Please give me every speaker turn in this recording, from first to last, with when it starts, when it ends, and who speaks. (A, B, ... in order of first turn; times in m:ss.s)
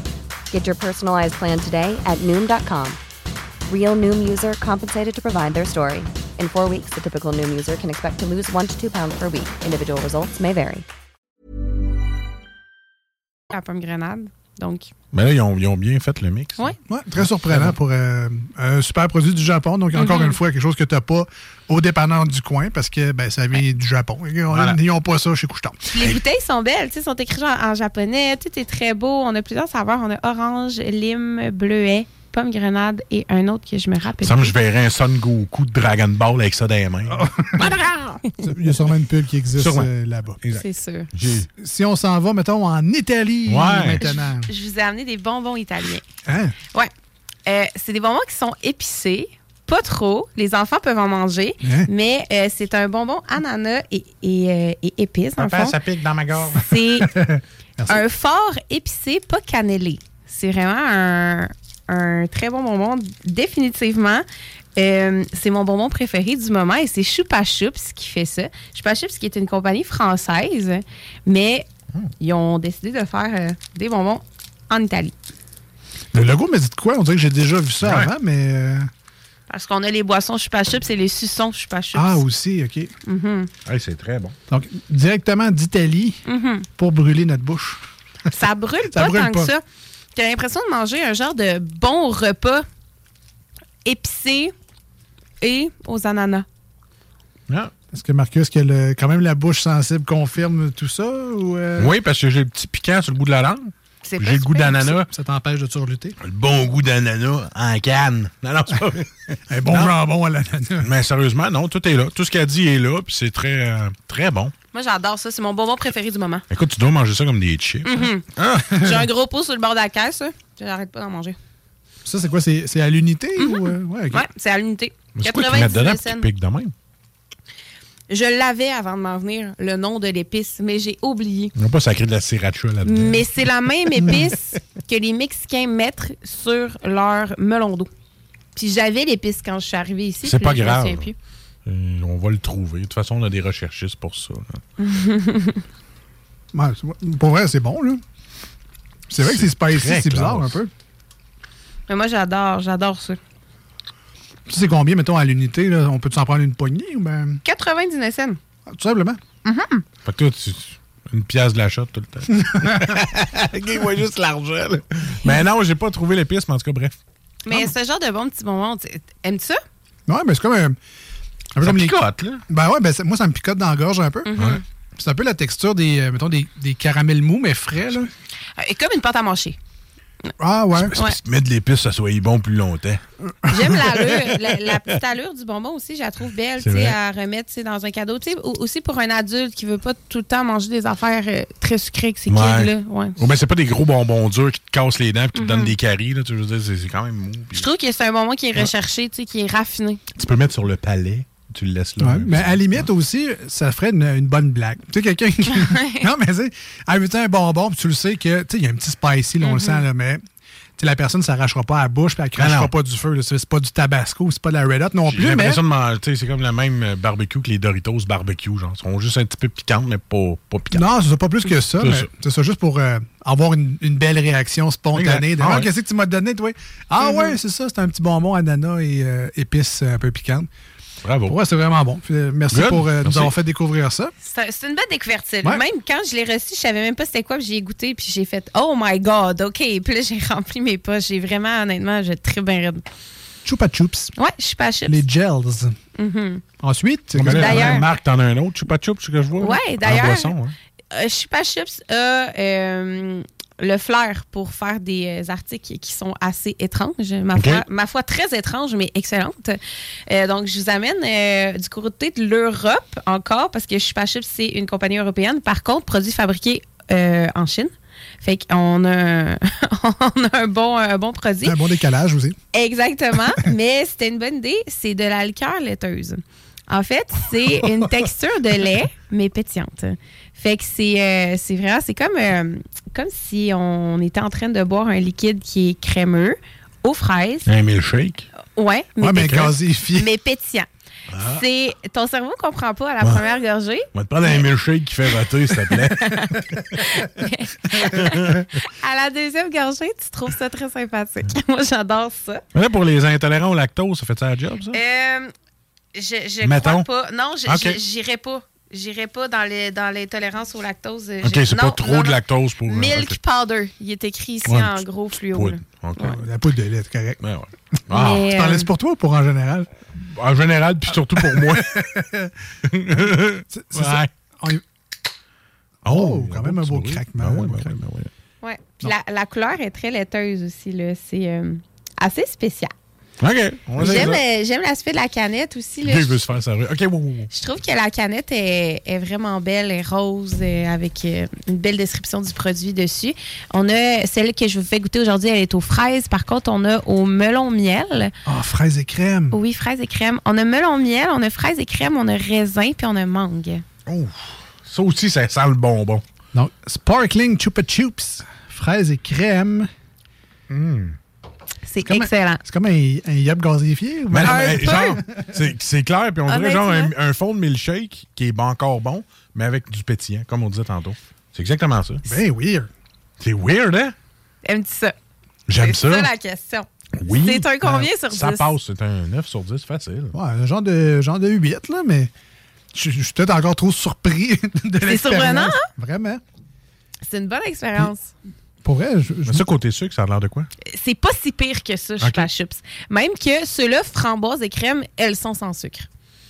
0:00.5-0:03.0 A
0:03.7-0:10.9 A
0:13.5-0:14.9 B
0:15.1-0:17.8 C
0:16.9-0:25.8 D
0:20.0-0:20.4 B
0:24.5-0:24.8 C
0:25.9-0:34.5 B
0:34.2-0:38.2 C
0:37.1-0:37.6 D
0:38.4-0:40.4 D
0:39.6-0:39.9 C
0:40.4-0:41.5 C
0:40.6-0:41.1 B
0:41.5-0:44.5 D
0:43.5-0:44.0 C
0:44.0-0:46.0 B
0:46.3-0:46.6 D
0:47.5-0:55.8 B
0:51.6-0:51.9 D
0:55.4-0:56.7 C
0:56.5-0:57.2 B
0:57.0-0:58.0 D
0:57.9-1:04.2 B
1:04.8-1:11.7 B
1:12.2-1:15.2 B
1:16.1-1:18.9 D
1:17.8-1:18.1 C
1:19.5-1:22.2 B
1:21.9-1:22.9 D
1:23.1-1:23.5 B
1:23.7-1:24.4 C
1:24.5-1:26.2 D
1:26.3-1:26.7 B
1:26.8-1:27.8 D
1:28.3-1:29.6 B
1:28.9-1:29.5 D
1:30.2-1:32.6 B
1:33.8-1:34.5 B
1:35.4-1:36.5 B
1:37.9-1:41.9 D
1:41.8-1:45.1 C
1:44.0-1:45.0 B
1:45.0-1:46.2 D
1:46.2-1:50.0 C
1:49.5-1:50.9 D
1:50.8-1:54.5 C
1:54.7-1:56.4 B
1:56.5-1:59.1 C
1:57.8-2:01.4 B
2:02.0-2:04.2 D
2:03.4-2:06.3 B
2:05.2-2:06.7 C
2:08.1-2:11.5 B
2:11.6-2:13.5 C
2:12.8-2:17.9 B
2:14.0-2:14.2 C
2:18.6-2:21.2 B
2:20.2-2:21.1 C
2:21.7-2:24.6 C
2:24.8-2:25.6 B
2:26.5-2:28.0 D
2:29.1-2:30.7 D
2:29.2-2:30.6 C
2:31.9-2:33.2 B
2:34.5-2:37.4 D
2:37.4-2:38.4 B
2:38.7-2:39.2 D
2:39.4-2:39.8 B
2:40.0-2:46.9 C
2:42.4-2:43.0 D
2:47.4-2:49.6 B
2:50.1-2:50.8 D
2:51.5-2:54.3 D
2:51.6-2:52.4 C
2:54.3-2:54.6 B
2:55.0-2:58.1 D
2:58.6-2:59.6 B
3:00.4-3:01.0 D
3:00.8-3:03.0 C
3:03.5-3:13.2 B
3:03.6-3:04.8 C
3:06.6-3:07.0 C
3:12.3-3:17.7 C
3:15.4-3:15.7 B
3:17.6-3:20.0 B
3:20.2-3:22.9 C
3:22.0-3:30.2 D
3:25.5-3:26.1 B
3:29.4-3:29.8 B
3:30.8-3:35.6 D
3:32.4-3:32.7 C
3:35.1-3:40.8 C
3:40.7-3:50.5 D
3:41.8-3:42.1 C
3:44.9-3:45.7 C
3:47.0-3:47.4 B
3:51.0-3:51.4 C
3:51.3-3:54.1 D
3:52.5-3:53.3 C
3:54.2-4:02.8 B
4:03.4-4:04.1 D
4:04.2-4:05.0 B
4:04.9-4:05.8 D
4:06.0-4:06.4 B
4:06.6-4:07.8 D
4:07.2-4:10.6 C
4:07.3-4:07.9 B
4:09.4-4:10.3 B
4:10.9-4:31.6 B
4:17.4-4:17.6 C
4:31.4-4:32.4 D
4:32.5-4:47.5 B
4:47.5-4:48.3 C
4:48.5-4:50.7 B
4:49.0-4:50.1 D
4:49.2-4:49.5 C
4:51.1-4:51.4 C
4:51.2-4:54.4 B
4:53.9-4:56.8 C
4:55.7-5:02.4 B
4:57.8-4:58.5 C
5:02.5-5:04.8 C
5:04.7-5:05.3 B
5:06.0-5:16.1 B
5:06.4-5:06.9 C
5:07.5-5:07.8 C
5:11.2-5:13.2 C
5:14.5-5:16.2 C
5:16.0-5:17.2 D
5:17.2-5:18.3 C
5:17.9-5:18.7 B
5:18.0-5:19.7 D
5:20.0-5:22.0 C
5:21.1-5:22.3 D
5:22.7-5:24.1 C
5:23.0-5:24.6 D
5:25.8-5:28.1 C
5:25.9-5:27.8 D
5:28.4-5:32.7 B
5:33.2-5:34.2 C
5:33.8-5:36.1 B
5:35.8-5:37.3 C
5:37.3-5:48.1 B
5:48.3-5:49.4 D
5:49.3-5:53.6 B
5:53.9-5:56.0 C
5:56.3-5:59.7 D
6:00.5-6:01.0 C
6:01.7-6:02.4 B
6:01.8-6:05.0 D
6:04.1-6:12.0 C
6:04.3-6:05.0 B
6:06.3-6:06.9 B
6:12.0-6:12.7 D
6:13.2-6:14.0 C
6:14.4-6:15.0 B
6:15.5-6:16.1 C
6:15.6-6:18.5 B
6:17.0-6:20.2 C
6:20.1-6:22.1 D
6:22.7-6:26.2 D
6:24.8-6:25.7 B
6:27.1-6:28.1 B
6:28.6-6:29.4 D
6:29.3-6:30.5 C
6:30.6-6:35.9 B
6:32.0-6:32.3 C